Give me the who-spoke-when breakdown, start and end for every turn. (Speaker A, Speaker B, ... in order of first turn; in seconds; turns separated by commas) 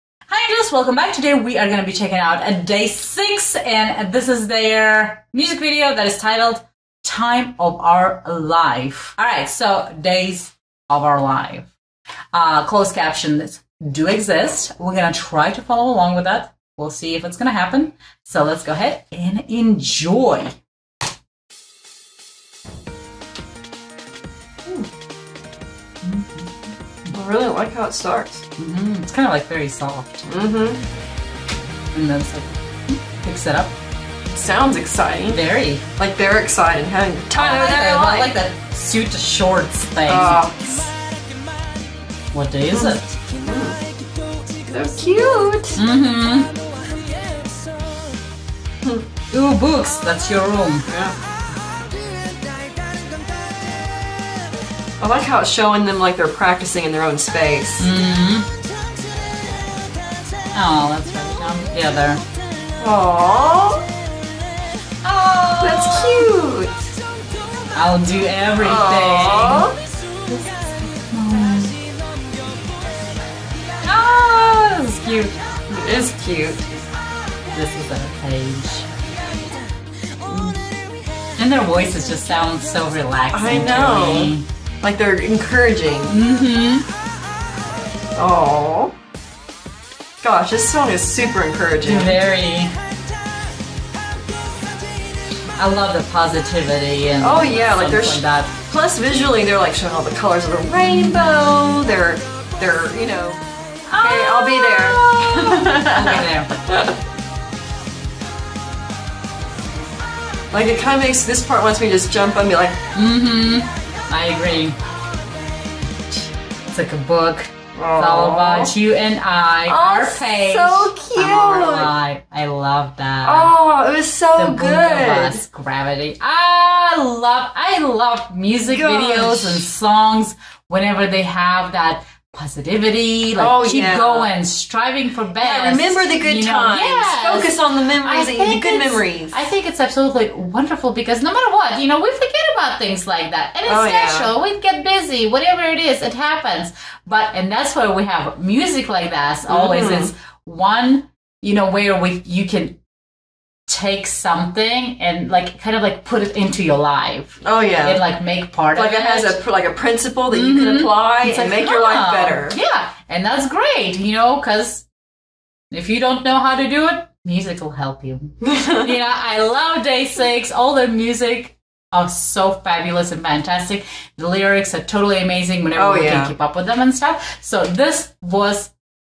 Speaker A: 0.3-11.7, Speaker A: 12.3-20.6, Speaker A: 26.0-27.1, Speaker B: 27.1-28.4, Speaker A: 28.6-30.3, Speaker B: 30.3-30.8, Speaker A: 31.9-33.8, Speaker B: 34.3-35.4, Speaker A: 35.3-35.8, Speaker B: 36.0-38.4, Speaker A: 37.3-40.5, Speaker B: 40.1-40.9, Speaker A: 42.3-43.2, Speaker B: 42.7-43.8, Speaker B: 44.7-45.8, Speaker A: 45.8-46.5, Speaker A: 49.3-50.9, Speaker B: 50.9-51.1, Speaker B: 55.0-57.9, Speaker A: 57.8-58.5, Speaker A: 60.5-62.2, Speaker B: 62.8-63.9, Speaker A: 65.0-66.3, Speaker B: 65.6-66.7, Speaker A: 67.7-69.7, Speaker B: 68.6-69.8, Speaker A: 70.3-71.8, Speaker A: 73.8-75.4, Speaker B: 75.7-76.7, Speaker A: 77.5-78.9, Speaker A: 81.4-84.5, Speaker B: 83.3-86.2, Speaker A: 86.1-86.9, Speaker B: 88.2-88.9, Speaker B: 90.2-92.2, Speaker A: 91.8-92.8, Speaker A: 95.6-98.5, Speaker B: 97.2-103.4, Speaker A: 100.8-101.8, Speaker A: 103.9-106.5, Speaker B: 104.0-107.0, Speaker B: 110.5-112.8, Speaker A: 113.0-114.8, Speaker A: 116.7-123.5, Speaker B: 117.8-118.7, Speaker B: 119.7-121.9, Speaker B: 123.2-125.4, Speaker A: 124.4-152.8, Speaker B: 128.6-129.7, Speaker B: 133.4-134.3, Speaker B: 135.4-139.4, Speaker B: 143.7-144.3, Speaker B: 149.5-150.1, Speaker A: 153.7-159.4, Speaker B: 157.4-158.0, Speaker B: 158.8-162.6, Speaker A: 160.3-164.9, Speaker A: 165.7-178.7, Speaker B: 168.4-168.9, Speaker B: 175.8-176.3